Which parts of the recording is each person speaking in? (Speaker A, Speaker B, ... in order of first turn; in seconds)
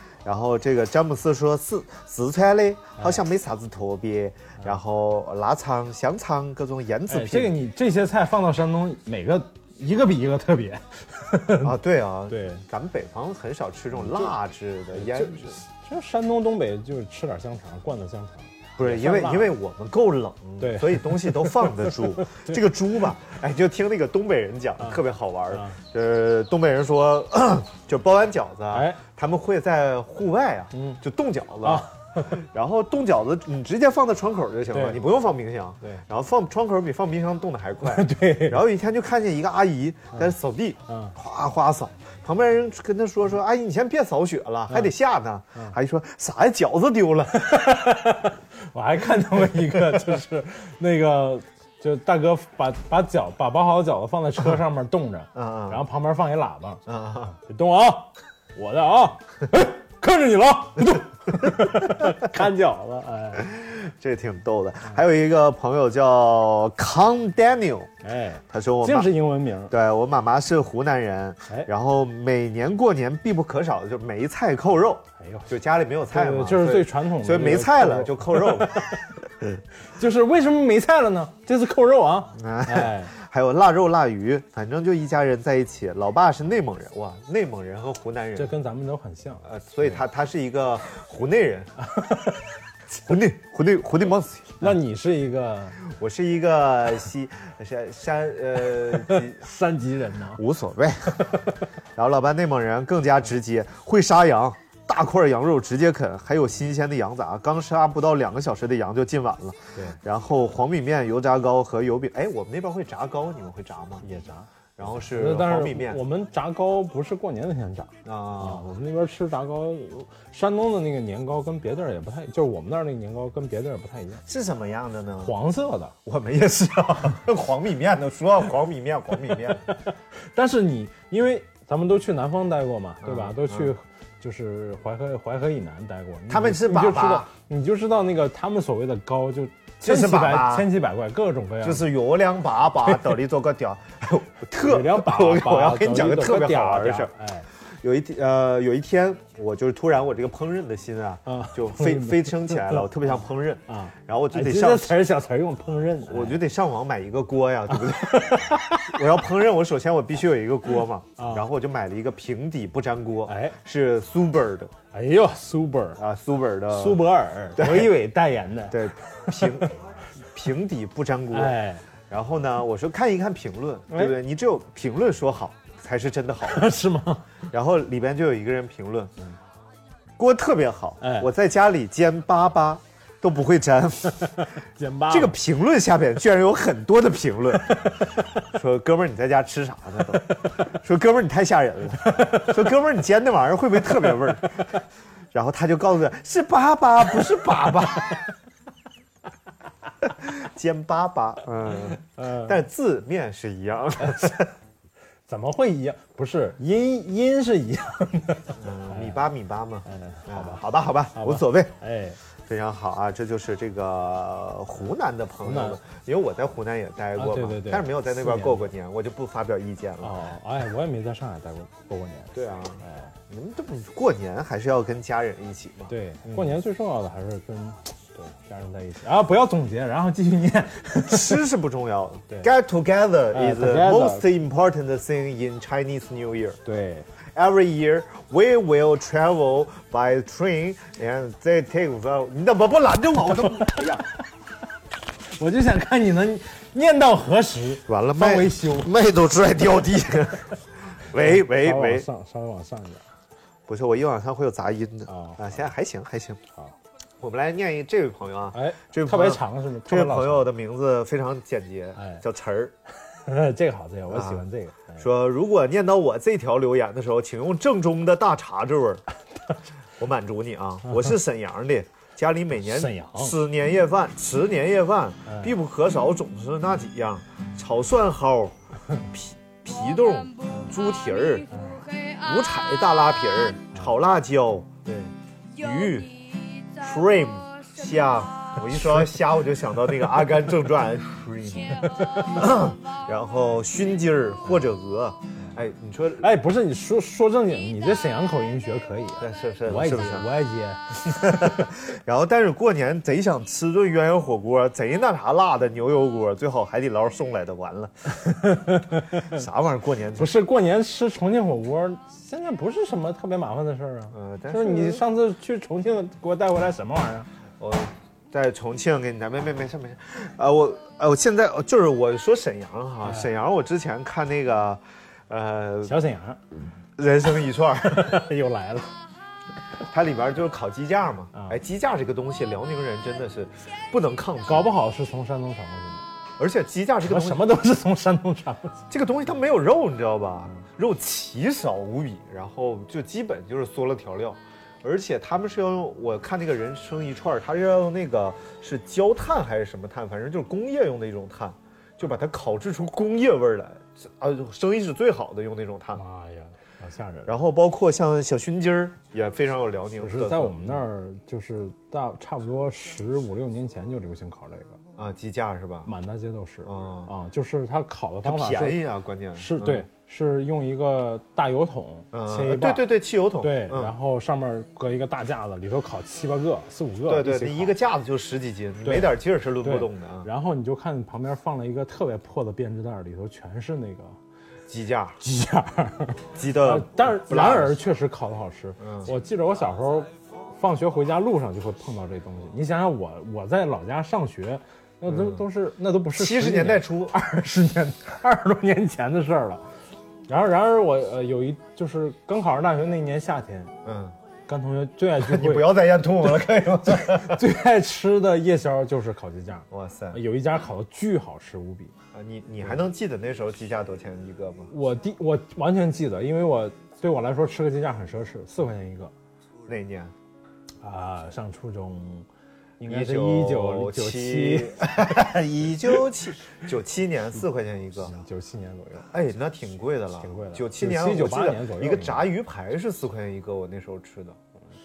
Speaker A: 0.2-7.5, 11.6-15.5, 18.8-47.6, 55.3-55.8, 56.9-57.3, 61.4-62.0, 63.4-67.9, 68.5-69.1, 69.7-78.8, 82.3-88.5, 89.4-91.7, 92.9-94.8, 95.8-99.4, 100.3-114.0, 114.8-116.0, 118.0-118.6, 124.3-125.3, 126.0-129.6, 133.0-133.7, 136.3-137.3, 139.8-140.7, 141.6-147.1, 147.8-155.0, 156.1-164.7, 166.0-167.9, 168.7-169.7, 170.3-171.6, 172.1-176.7, 177.5-179.1, 180.2-184.4, 185.1-187.9, 188.4-194.7, 195.3-198.2, 200.0-204.5, 208.6-211.7, 212.5-220.1, 222.3-226.5, 231.1-236.6, 237.3-244.0, 247.8-252.1, 253.7-256.4, 257.2-262.7, 264.1-264.4, 265.0-269.0, 270.0-296.3, 299.2-300.3, 301.1-308.1, 309.2-310.3, 314.1-315.0, 317.6-326.0, 327.0-328.2, 329.9-334.7, 336.4-337.5, 338.9-356.0, 357.3-360.8, 365.0-365.9, 366.6-367.1, 368.2-369.9, 372.1-373.9, 377.0-380.3, 384.7-385.2, 386.3-387.8, 388.8-389.1, 395.1-395.4, 396.2-397.1, 403.8-404.1, 405.2-407.4, 409.7-410.2, 412.1-414.7, 419.7-420.1, 422.8-428.1, 429.1-434.4
Speaker B: 7.1-11.8, 12.3-12.6, 14.0-14.3, 14.9-19.5, 20.6-21.8, 24.8-25.8, 28.7-29.0, 30.7-31.0, 31.6-32.4, 34.7-35.0, 37.8-38.6, 40.9-41.1, 47.4-56.8, 57.3-63.5, 68.0-69.7, 75.2-75.5, 76.1-79.0, 79.8-83.1, 88.3-89.9, 91.8-92.4, 94.6-95.8, 98.9-100.4, 114.0-124.2, 125.2-125.9, 129.6-141.9, 142.8-143.1, 144.6-147.5, 151.2-152.9, 153.7-156.4, 157.8-159.0, 161.2-161.5, 163.2-163.6, 164.9-166.0, 166.7-169.7, 171.3-171.8, 173.9-174.2, 176.4-177.3, 181.0-181.3, 184.2-185.4, 187.7-188.2, 192.0-192.6, 202.0-202.6, 205.3-209.2, 209.9-210.6, 211.1-212.2, 215.4-215.8, 217.2-218.7, 220.0-223.1, 225.9-231.4, 233.3-234.3, 236.6-237.1, 245.3-248.9, 251.2-253.0, 255.1-255.6, 258.5-260.5, 262.0-262.2, 263.1-265.1, 272.6-273.4, 275.3-275.5, 281.5-281.9, 288.6-289.2, 292.0-292.4, 296.2-301.5, 308.2-309.4, 310.2-317.3, 323.0-323.3, 325.8-326.4, 327.8-328.9, 334.4-336.1, 337.1-338.8, 355.9-357.4, 360.0-364.8, 365.9-368.8, 369.4-377.8, 378.8-384.1, 385.2-399.6, 400.3-403.7, 404.5-406.0, 406.9-411.9, 414.7-419.1, 420.8-422.3, 422.8-425.2, 428.0-429.1, 430.2-432.3